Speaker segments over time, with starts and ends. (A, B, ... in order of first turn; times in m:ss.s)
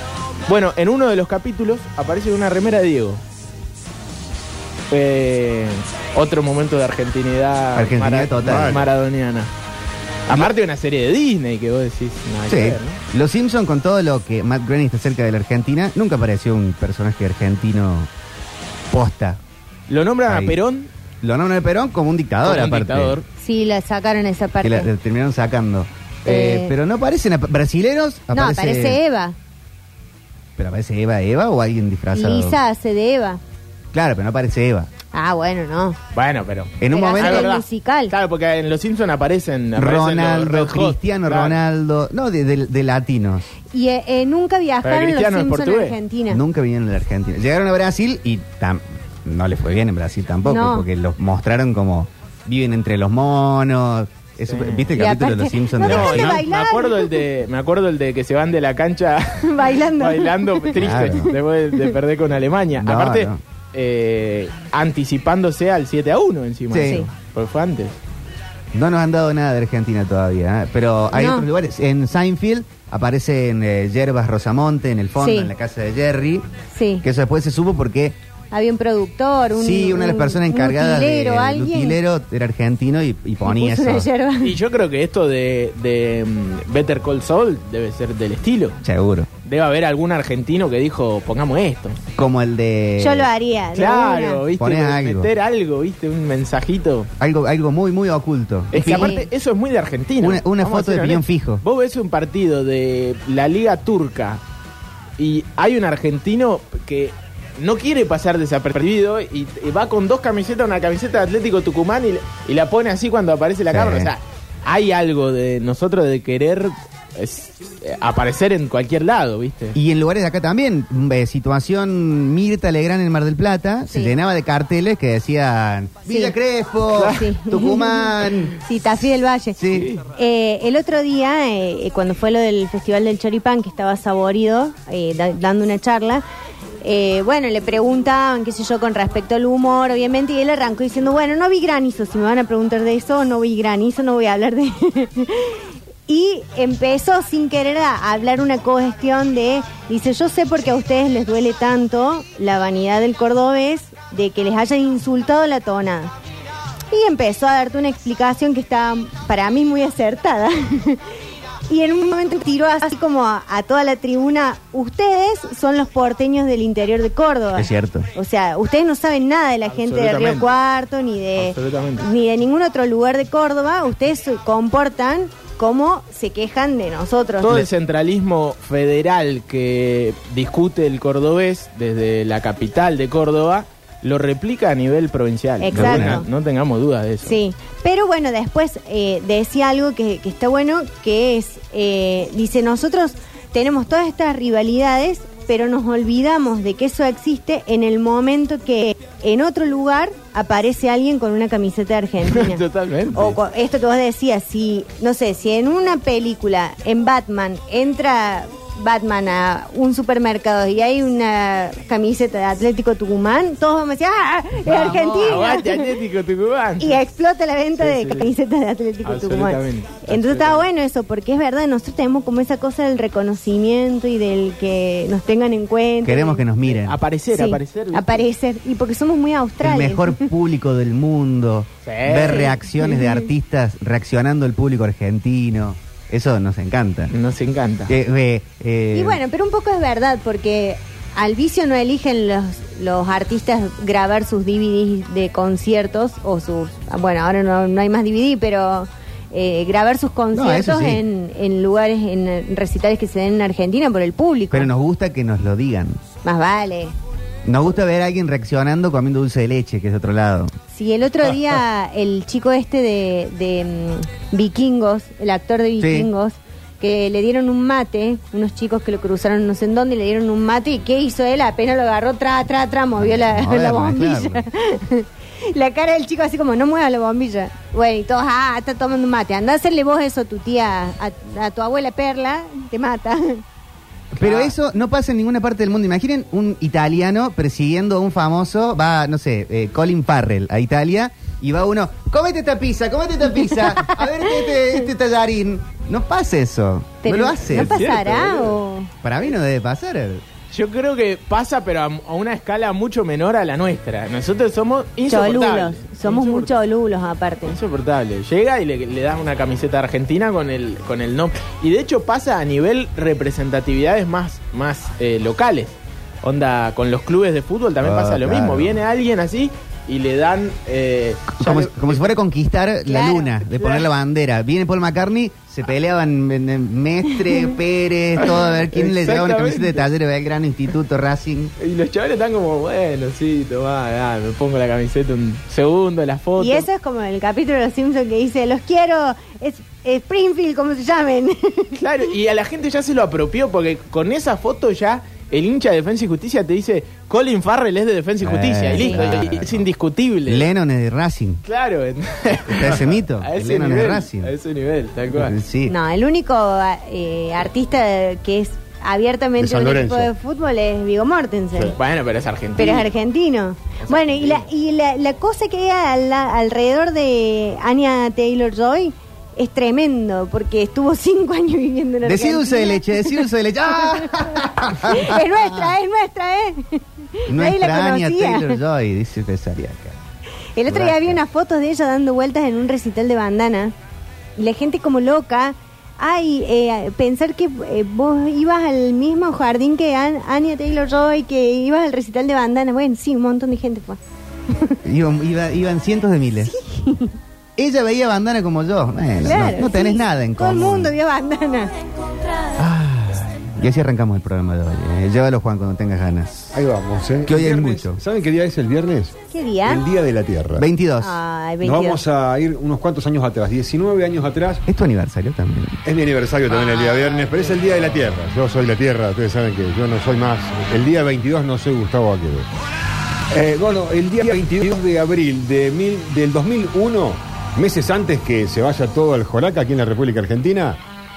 0:00.5-0:03.2 A
0:04.9-0:09.5 A
0:07.8-0:08.8 B
0:08.4-0:08.9 C
0:10.3-0:13.0 A
0:12.5-0:18.1 B
0:18.9-0:19.4 B
0:19.9-0:20.9 A
0:20.3-0:20.6 B
0:21.2-0:23.2 B
0:22.4-0:23.2 A
0:23.4-0:24.9 D
0:24.6-0:29.0 B
0:26.2-0:26.7 D
0:28.3-0:29.4 D
0:30.6-0:32.6 B
0:32.1-0:33.4 D
0:33.9-0:34.9 B
0:35.1-0:36.0 D
0:36.1-0:41.6 A
0:36.8-0:37.6 B
0:36.9-0:38.1 D
0:39.8-0:43.5 B
0:43.7-0:46.4 D
0:44.8-0:46.0 A
0:46.3-0:56.5 B
0:50.5-0:50.9 D
0:54.5-0:55.0 A
0:55.0-0:57.2 D
0:55.8-0:59.4 A
0:59.4-1:01.8 D
1:00.0-1:08.0 A
1:00.7-1:01.4 B
1:02.8-1:03.4 B
1:06.7-1:07.1 B
1:06.8-1:07.1 D
1:08.7-1:16.5 B
1:11.1-1:11.5 D
1:15.2-1:15.5 D
1:16.7-1:17.0 D
1:17.0-1:18.1 B
1:18.5-1:22.0 D
1:19.6-1:24.1 B
1:23.4-1:24.6 D
1:24.4-1:28.8 A
1:28.8-1:29.3 B
1:29.4-1:32.0 A
1:32.1-1:33.3 B
1:33.0-1:34.4 D
1:33.8-1:37.1 A
1:34.6-1:35.3 B
1:37.2-1:39.3 B
1:38.7-1:44.4 A
1:38.8-1:39.2 D
1:40.2-1:41.6 B
1:45.2-1:59.8 A
1:53.7-1:54.1 B
1:59.8-2:08.5 B
2:03.9-2:04.1 D
2:06.1-2:06.3 D
2:07.0-2:09.6 D
2:09.6-2:09.9 B
2:09.7-2:10.0 A
2:10.1-2:16.2 D
2:16.8-2:36.1 D
2:36.9-2:41.0 D
2:41.7-2:57.7 D
2:47.5-2:48.1 B
2:49.7-2:50.5 A
2:51.4-2:52.1 A
2:57.4-3:07.4 A
3:05.6-3:06.3 D
3:05.7-3:06.2 B
3:07.2-3:36.0 D
3:22.2-3:23.4 A
3:34.6-3:37.0 A
3:36.8-3:46.4 D
3:37.8-3:38.3 A
3:39.0-3:40.6 A
3:46.0-3:47.0 B
3:46.7-3:48.2 A
3:47.3-3:50.3 D
3:49.6-3:57.1 B
3:51.8-3:52.6 A
3:52.2-3:53.3 D
3:57.1-3:58.0 A
3:57.9-3:59.2 B
3:58.9-4:14.7 D
4:10.3-4:11.0 B
4:14.5-4:16.0 B
4:16.2-4:16.9 D
4:17.4-4:20.5 B
4:20.7-4:43.4 D
4:25.8-4:26.1 B
4:33.0-4:34.5 B
4:44.1-4:57.9 B
4:44.2-4:44.5 A
4:57.0-4:58.9 D
4:57.5-4:58.6 A
4:59.0-5:00.2 B
5:00.5-5:06.5 A
5:05.1-5:07.6 D
5:07.5-5:22.1 A
5:17.8-5:18.8 B
5:21.3-5:31.5 B
5:22.9-5:23.4 D
5:28.4-5:29.9 A
5:31.6-5:36.6 A
5:36.4-5:41.8 D
5:41.8-5:50.5 A
5:48.2-5:49.7 B
5:48.8-5:49.0 D
5:50.3-5:51.4 B
5:51.4-5:55.4 A
5:52.5-5:54.3 B
5:55.1-5:55.8 B
5:55.7-6:01.8 D
5:59.4-6:00.1 C
6:01.8-6:02.9 A
6:02.6-6:18.6 D
6:03.8-6:04.5 A
6:12.0-6:15.7 B
6:17.3-6:20.0 B
6:20.6-6:23.7 D
6:20.7-6:21.2 B
6:24.4-6:34.0 D
6:34.5-6:34.8 D
6:34.8-6:36.6 B
6:36.4-6:37.2 D
6:37.6-6:41.0 B
6:39.2-6:41.7 D
6:42.6-6:46.6 B
6:46.5-6:49.1 C
6:47.2-6:48.0 B
6:49.3-6:49.8 D
6:49.7-6:50.7 C
6:50.6-6:51.2 B
6:51.0-6:52.0 D
6:51.6-6:54.6 C
6:54.7-6:55.8 B
6:55.8-7:02.5 C
7:03.3-7:10.8 C